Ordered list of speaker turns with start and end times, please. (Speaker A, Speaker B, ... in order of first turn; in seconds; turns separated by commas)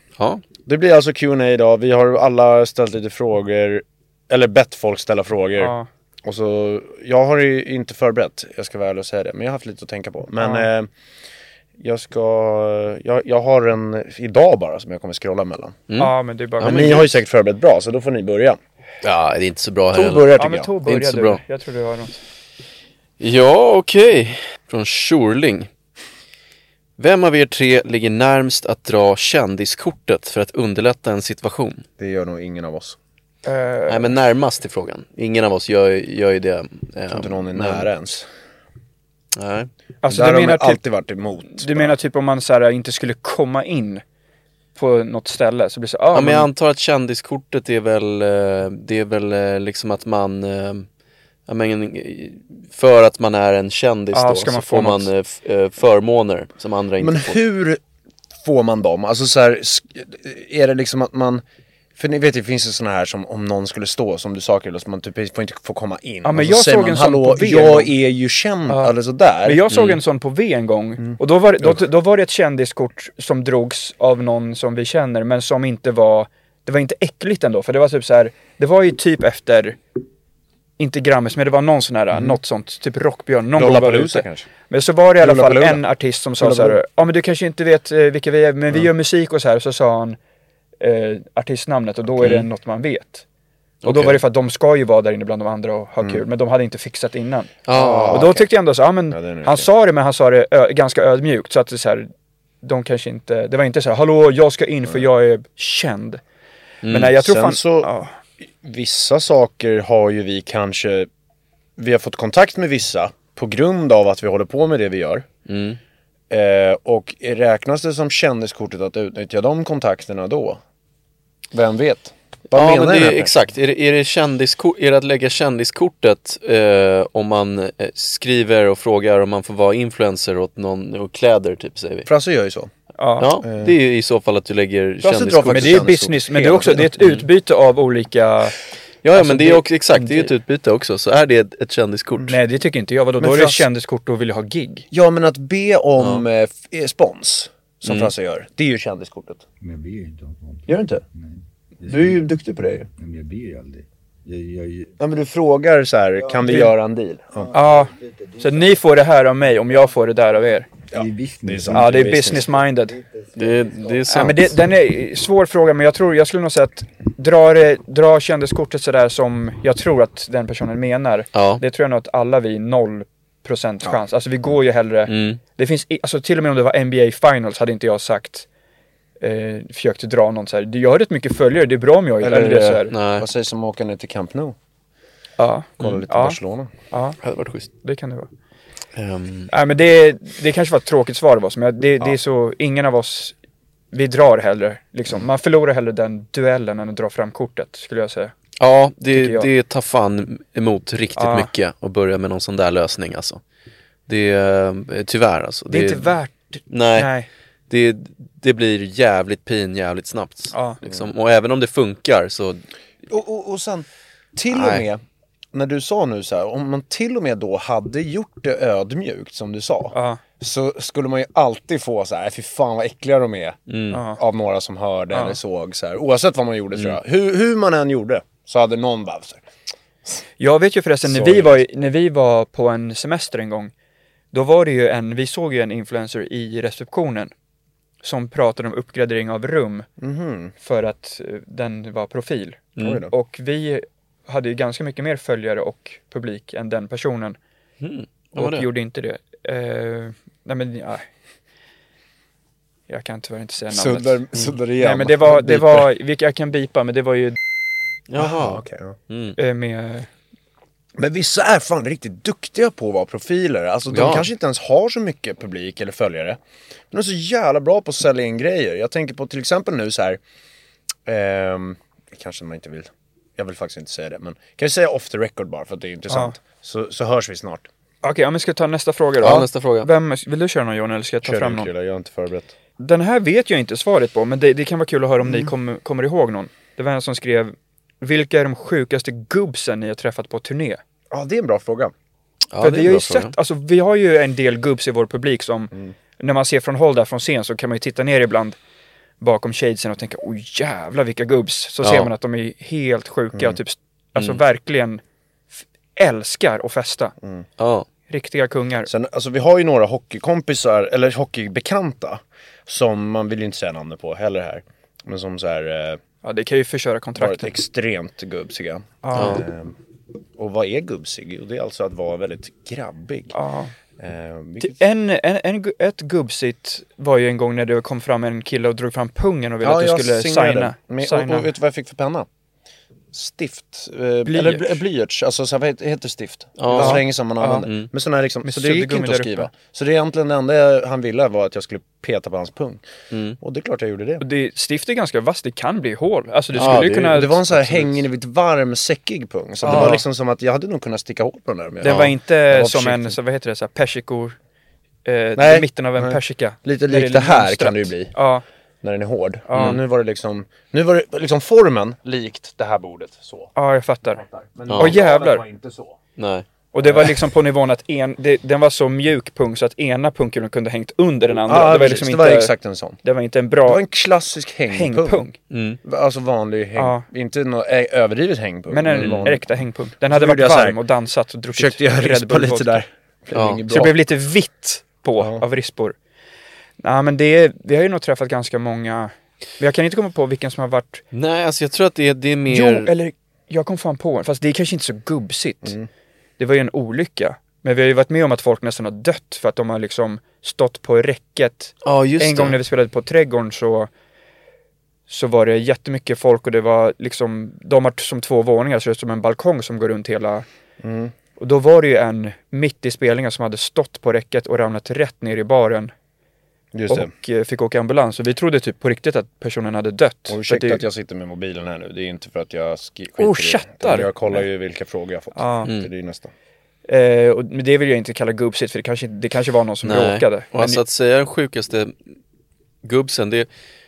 Speaker A: 0.2-0.4, Speaker B: 0.6-10.9, Speaker C: 5.6-5.9, Speaker C: 10.4-10.7, Speaker B: 11.8-15.8, Speaker A: 15.9-17.1, Speaker C: 16.0-17.1, Speaker B: 16.6-18.6, Speaker A: 19.0-20.3, Speaker B: 19.9-20.7, Speaker C: 20.4-22.2, Speaker A: 20.9-21.4, Speaker A: 23.2-25.7, Speaker A: 27.0-31.8, Speaker B: 32.0-33.0, Speaker C: 33.5-34.1, Speaker A: 33.9-37.9, Speaker B: 37.1-38.3, Speaker A: 39.4-39.7, Speaker C: 40.0-40.8, Speaker B: 40.1-42.0, Speaker C: 41.5-44.0, Speaker C: 44.8-46.5, Speaker A: 46.1-50.9, Speaker A: 51.5-57.4, Speaker C: 54.1-55.1, Speaker B: 57.0-57.8, Speaker B: 58.4-61.4, Speaker B: 62.0-69.6, Speaker C: 66.2-67.9, Speaker C: 68.7-79.8, Speaker A: 69.7-70.0, Speaker B: 71.0-71.8, Speaker C: 80.8-90.2, Speaker B: 82.1-82.4, Speaker B: 83.6-84.5, Speaker B: 85.2-85.8, Speaker B: 86.4-86.8, Speaker C: 90.8-93.2, Speaker A: 92.2-92.5, Speaker A: 93.8-94.2, Speaker C: 93.8-97.6, Speaker A: 97.7-98.3, Speaker B: 97.7-98.5, Speaker C: 98.1-102.1, Speaker B: 99.1-99.7, Speaker C: 102.6-106.2, Speaker A: 106.8-107.1, Speaker C: 106.9-108.1, Speaker B: 107.2-107.9, Speaker B: 108.4-111.1, Speaker B: 111.8-115.3, Speaker A: 115.5-115.8, Speaker B: 116.3-120.6, Speaker B: 121.5-123.3, Speaker A: 122.5-132.1, Speaker B: 132.1-132.7, Speaker C: 133.0-133.3, Speaker A: 133.2-136.0, Speaker B: 133.4-133.8, Speaker B: 135.0-136.9, Speaker C: 135.1-138.6, Speaker A: 137.0-137.2, Speaker A: 139.0-142.3, Speaker C: 139.1-140.3, Speaker C: 142.3-144.9, Speaker B: 143.2-143.7, Speaker B: 144.9-149.4, Speaker A: 147.9-148.1, Speaker D: 149.6-152.2, Speaker B: 150.7-151.0, Speaker B: 151.9-152.9, Speaker D: 153.0-155.0, Speaker B: 155.0-157.5, Speaker D: 156.2-156.7, Speaker C: 156.4-156.7, Speaker D: 157.3-158.8, Speaker C: 157.5-160.7, Speaker D: 160.9-164.3, Speaker B: 160.9-162.6, Speaker C: 161.7-163.0, Speaker A: 163.4-164.5, Speaker C: 164.1-178.5, Speaker A: 171.3-171.6, Speaker A: 175.1-175.4, Speaker C: 179.2-182.9, Speaker B: 182.2-184.6, Speaker A: 182.9-183.3, Speaker C: 185.4-186.4, Speaker B: 185.8-186.7, Speaker C: 186.9-187.2, Speaker A: 187.2-187.7, Speaker C: 187.8-188.3, Speaker A: 188.9-189.5, Speaker C: 189.5-193.3, Speaker C: 193.9-198.3, Speaker A: 198.6-203.4, Speaker C: 199.1-199.5, Speaker C: 201.2-201.5, Speaker A: 204.1-206.1, Speaker C: 205.7-207.3, Speaker A: 206.7-207.1, Speaker A: 207.7-212.6, Speaker C: 210.5-210.8, Speaker B: 213.1-215.0, Speaker A: 214.5-214.8, Speaker B: 215.5-223.6, Speaker C: 219.9-220.2, Speaker A: 223.7-224.0, Speaker C: 223.9-224.2, Speaker B: 224.1-229.4, Speaker C: 225.1-225.4, Speaker C: 230.4-233.7, Speaker A: 231.2-231.5, Speaker C: 234.3-237.3, Speaker C: 238.0-239.9, Speaker B: 240.0-240.5, Speaker C: 240.6-247.4, Speaker A: 242.8-243.1, Speaker B: 242.8-243.1, Speaker A: 247.8-248.7, Speaker C: 248.4-251.1, Speaker C: 252.9-254.2, Speaker B: 253.7-255.8, Speaker C: 254.8-257.4, Speaker A: 258.1-259.4, Speaker B: 258.2-259.0, Speaker C: 259.4-260.1, Speaker B: 261.0-266.4, Speaker A: 263.9-264.3, Speaker B: 266.9-270.2, Speaker B: 271.1-277.7, Speaker C: 276.1-276.4, Speaker C: 278.0-281.7, Speaker A: 279.2-279.9, Speaker B: 281.2-282.5, Speaker C: 282.8-290.8, Speaker B: 285.2-285.5, Speaker B: 291.1-291.9, Speaker A: 292.5-293.3, Speaker C: 292.6-298.6, Speaker C: 299.2-305.0, Speaker A: 301.8-302.1, Speaker C: 305.6-307.1, Speaker A: 307.6-307.9, Speaker C: 308.1-308.9, Speaker B: 308.9-316.0, Speaker C: 316.2-317.5, Speaker B: 317.2-319.8, Speaker C: 319.0-319.4, Speaker A: 319.2-319.4, Speaker B: 320.4-323.3, Speaker C: 323.3-323.7, Speaker B: 324.0-324.8, Speaker C: 324.6-331.5, Speaker B: 329.6-332.3, Speaker B: 333.1-342.8, Speaker C: 334.3-334.8, Speaker A: 336.6-337.1, Speaker C: 336.7-337.7, Speaker C: 338.4-339.5, Speaker A: 343.1-343.4, Speaker B: 343.4-344.2, Speaker C: 344.2-347.9, Speaker A: 346.6-348.0, Speaker B: 346.6-353.2, Speaker C: 349.6-350.0, Speaker A: 349.7-350.0, Speaker C: 351.8-354.4, Speaker A: 351.8-352.1, Speaker C: 355.1-358.4, Speaker B: 355.4-358.1, Speaker B: 358.8-363.5, Speaker C: 359.5-359.8, Speaker A: 359.6-359.8, Speaker C: 363.6-364.2, Speaker B: 364.1-366.0, Speaker A: 364.7-364.9, Speaker C: 364.7-365.4, Speaker A: 366.2-366.4, Speaker C: 366.7-373.8, Speaker B: 366.8-367.2, Speaker B: 371.4-373.0, Speaker B: 373.7-375.2, Speaker C: 374.7-375.4, Speaker A: 375.5-375.8, Speaker B: 375.8-379.5, Speaker C: 376.8-377.1, Speaker C: 378.7-382.8, Speaker A: 378.9-379.2, Speaker B: 380.1-380.8, Speaker B: 381.6-384.0, Speaker A: 383.3-383.6, Speaker C: 383.7-386.0, Speaker C: 386.8-391.0, Speaker A: 391.1-392.9, Speaker C: 392.5-395.8, Speaker B: 395.6-395.9, Speaker C: 396.4-403.9, Speaker A: 401.8-402.6, Speaker C: 405.1-410.5, Speaker B: 410.8-411.1, Speaker C: 411.4-415.9, Speaker B: 416.7-417.1, Speaker C: 416.9-420.8, Speaker B: 420.3-426.3, Speaker C: 423.2-424.4, Speaker C: 425.4-425.7, Speaker C: 426.9-430.8, Speaker A: 429.8-432.1, Speaker A: 432.8-433.5